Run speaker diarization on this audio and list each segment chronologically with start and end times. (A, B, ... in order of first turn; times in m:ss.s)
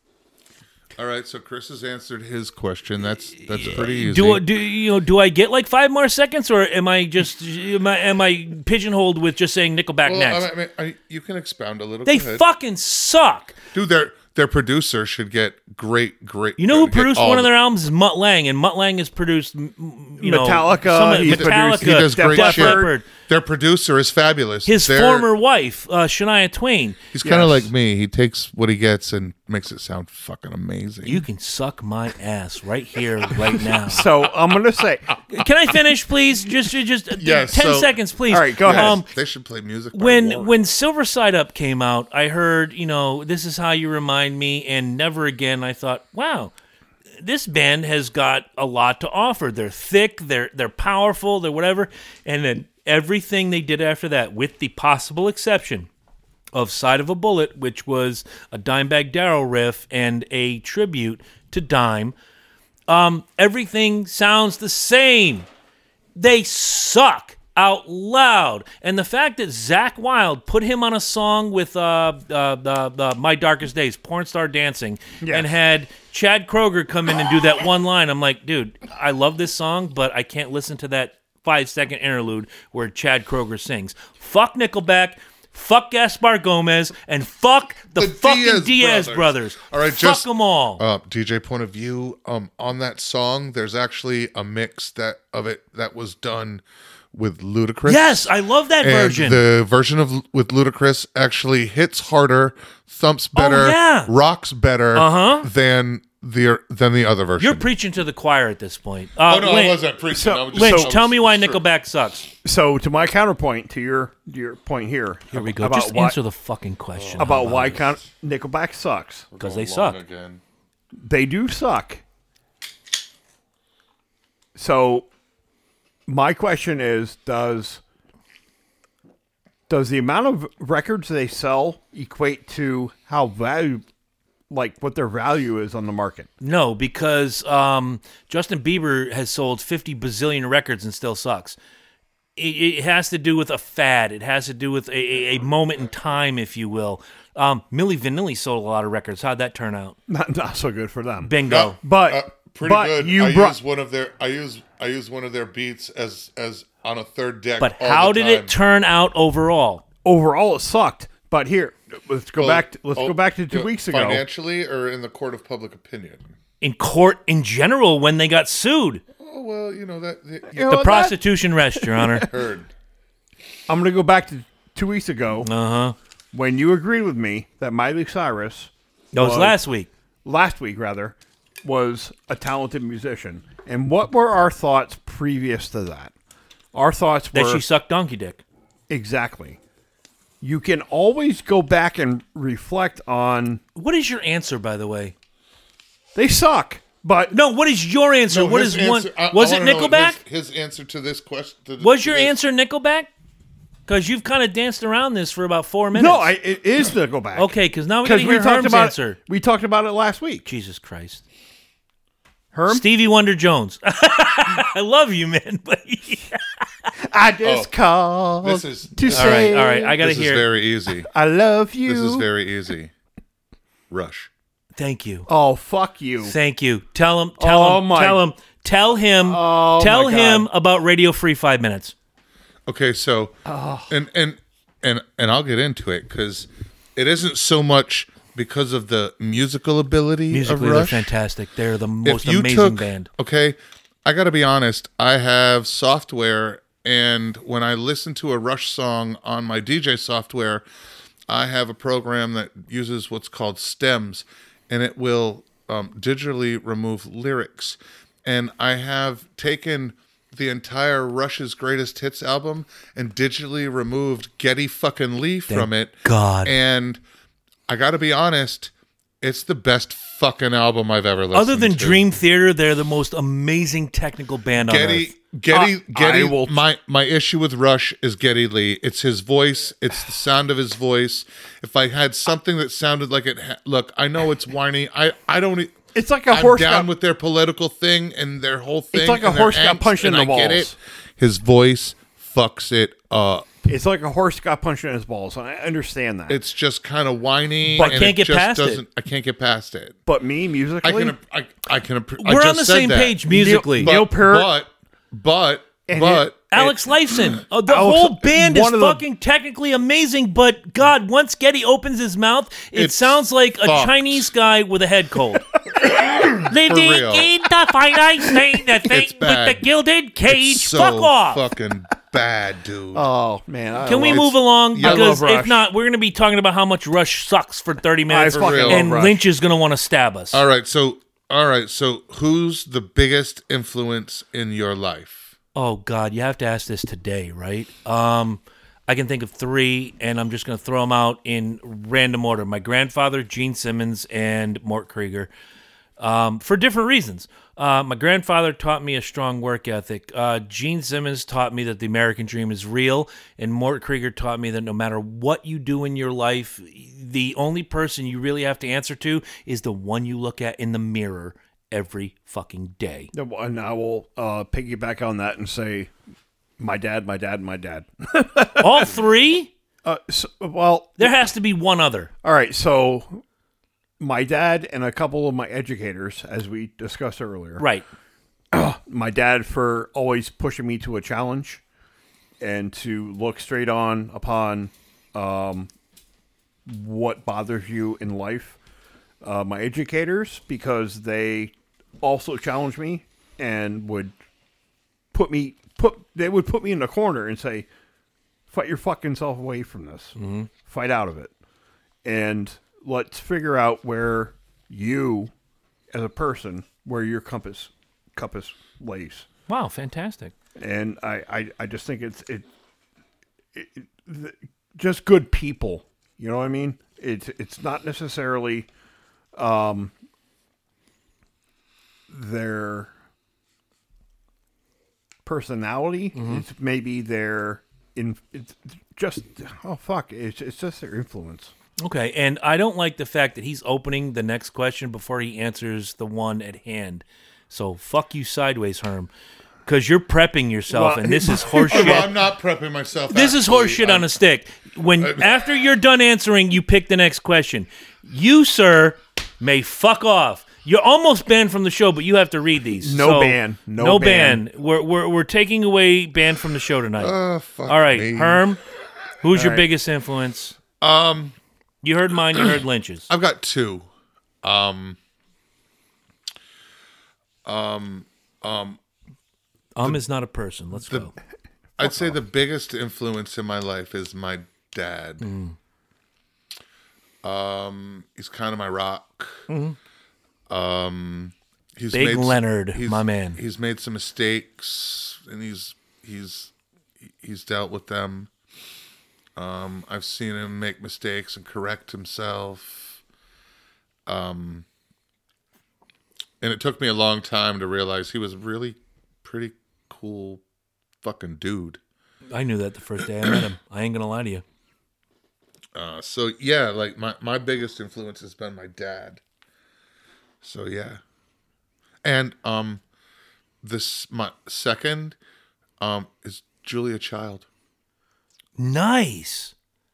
0:01.0-0:04.4 A
0:03.5-0:10.5 B
0:10.0-0:12.4 A
0:12.0-0:13.6 B
0:13.7-0:17.5 A
0:16.6-0:23.1 B
0:20.2-0:22.9 C
0:21.2-0:25.3 A
0:24.6-0:27.0 B
0:27.1-0:31.2 A
0:27.2-0:27.7 C
0:31.0-0:34.1 B
0:33.8-0:35.1 C
0:35.3-0:39.1 B
0:37.2-0:38.0 A
0:38.3-0:39.0 C
0:38.6-0:40.5 A
0:39.9-0:46.5 B
0:47.2-0:55.9 B
0:56.5-1:02.1 B
1:02.9-1:05.5 B
1:06.2-1:30.8 B
1:15.2-1:15.5 C
1:28.0-1:36.6 A
1:37.1-1:47.6 A
1:37.8-1:39.4 B
1:43.3-1:44.1 B
1:44.9-1:45.5 B
1:47.4-1:49.8 B
1:49.3-1:51.6 A
1:50.1-1:50.9 C
1:50.5-1:52.3 B
1:52.4-1:56.2 C
1:55.3-1:57.9 B
1:56.9-1:57.8 A
1:57.2-1:59.3 C
1:59.3-2:00.4 A
1:59.4-2:00.0 B
2:01.0-2:02.0 C
2:04.5-2:05.1 C
2:06.1-2:07.8 C
2:09.7-2:13.8 C
2:14.5-2:16.3 C
2:16.4-2:21.6 B
2:22.4-2:30.0 B
2:30.1-2:33.6 C
2:31.2-2:31.8 B
2:31.5-2:38.5 A
2:37.6-2:39.8 B
2:40.0-2:44.2 C
2:42.4-2:46.3 A
2:46.6-2:49.0 B
2:49.2-2:50.7 A
2:50.5-2:52.3 C
2:50.7-2:52.3 B
2:52.3-2:52.7 A
2:53.7-2:55.5 C
2:55.4-2:56.0 B
2:56.3-2:59.6 C
2:59.1-2:59.9 B
3:00.2-3:06.1 C
3:06.7-3:07.6 C
3:07.3-3:08.4 B
3:08.9-3:09.6 C
3:10.4-3:13.6 C
3:13.7-3:15.1 B
3:16.1-3:17.3 C
3:17.3-3:20.2 B
3:18.3-3:22.3 A
3:21.8-3:23.1 B
3:23.9-3:26.3 B
3:25.9-3:30.4 C
3:27.3-3:29.2 B
3:30.4-3:31.2 B
3:32.5-3:32.8 C
3:32.7-3:36.6 B
3:37.0-3:39.9 C
3:37.4-3:37.7 A
3:38.4-3:41.1 A
3:39.1-3:40.4 B
3:41.1-3:42.2 C
3:41.8-3:42.9 A
3:43.9-3:44.3 A
3:44.8-3:45.3 B
3:45.3-3:46.4 C
3:46.2-3:51.9 B
3:47.4-3:48.2 C
3:49.2-3:50.5 C
3:52.7-3:53.4 A
3:53.4-3:53.9 C
3:53.9-4:01.1 A
4:00.3-4:03.1 B
4:02.0-4:10.6 A
4:11.3-4:27.0 A
4:25.5-4:26.5 B
4:27.7-4:32.0 A
4:31.3-4:35.1 B
4:34.6-4:53.6 A
4:35.5-4:36.6 C
4:45.9-4:46.9 C
4:48.9-4:50.7 C
4:53.6-4:56.4 C
4:56.3-5:00.0 A
4:57.7-4:58.1 C
4:57.8-4:58.8 B
5:00.1-5:01.2 C
5:00.8-5:06.7 A
5:02.2-5:03.9 B
5:03.3-5:04.5 C
5:05.9-5:06.3 C
5:06.5-5:15.5 B
5:07.6-5:09.0 C
5:12.7-5:14.3 A
5:15.8-5:17.3 A
5:16.4-5:21.4 B
5:18.2-5:18.6 C
5:18.8-5:19.6 A
5:20.2-5:23.1 A
5:22.9-5:25.7 C
5:23.8-5:30.4 B
5:23.8-5:25.2 A
5:28.1-5:29.2 C
5:28.3-5:29.0 A
5:30.3-5:35.3 A
5:35.5-5:45.3 B
5:46.0-6:03.1 B
6:03.1-6:05.9 C
6:06.6-6:08.9 C
6:08.6-6:09.5 B
6:09.8-6:11.1 C
6:11.0-6:12.1 B
6:12.2-6:13.2 C
6:14.0-6:17.6 C
6:17.6-6:17.8 B
6:18.5-6:21.6 C
6:22.4-6:25.7 C
6:26.6-6:28.6 C
6:29.2-6:34.1 C
6:35.1-6:37.7 C
6:38.5-6:41.3 C
6:40.2-6:40.5 B
6:42.0-6:45.3 C
6:45.9-6:49.2 C
6:49.5-6:50.3 B
6:50.6-6:52.5 C
6:53.5-6:58.7 C
6:59.3-6:59.9 C
7:02.1-7:02.9 C
7:05.2-7:11.5 C
7:06.1-7:06.4 B
7:11.8-7:19.1 B
7:19.6-7:22.1 B
7:20.7-7:22.1 C
7:21.6-7:24.1 A
7:23.1-7:37.1 B
7:25.0-7:25.3 A
7:32.8-7:34.4 C
7:37.0-7:38.4 A
7:37.7-7:38.6 B
7:39.2-7:40.6 B
7:39.3-7:39.6 C
7:40.8-7:41.4 A
7:41.8-7:43.1 B
7:43.1-7:43.8 A
7:44.4-7:45.0 A
7:47.4-7:48.8 A
7:49.7-7:51.1 B
7:51.8-7:55.3 A
7:51.8-7:52.1 C
7:55.2-7:55.6 B
7:57.2-7:59.5 A
7:59.5-7:59.8 B
8:00.5-8:06.5 A
8:01.9-8:03.4 B
8:07.1-8:08.3 A
8:09.4-8:13.0 A
8:14.1-8:14.6 A
8:16.4-8:20.4 A
8:21.0-8:21.8 A
8:22.3-8:24.4 B
8:25.7-8:29.2 A
8:30.4-8:31.0 A
8:32.0-8:32.8 A
8:33.6-8:35.2 A
8:35.8-8:37.4 A
8:38.6-8:39.5 B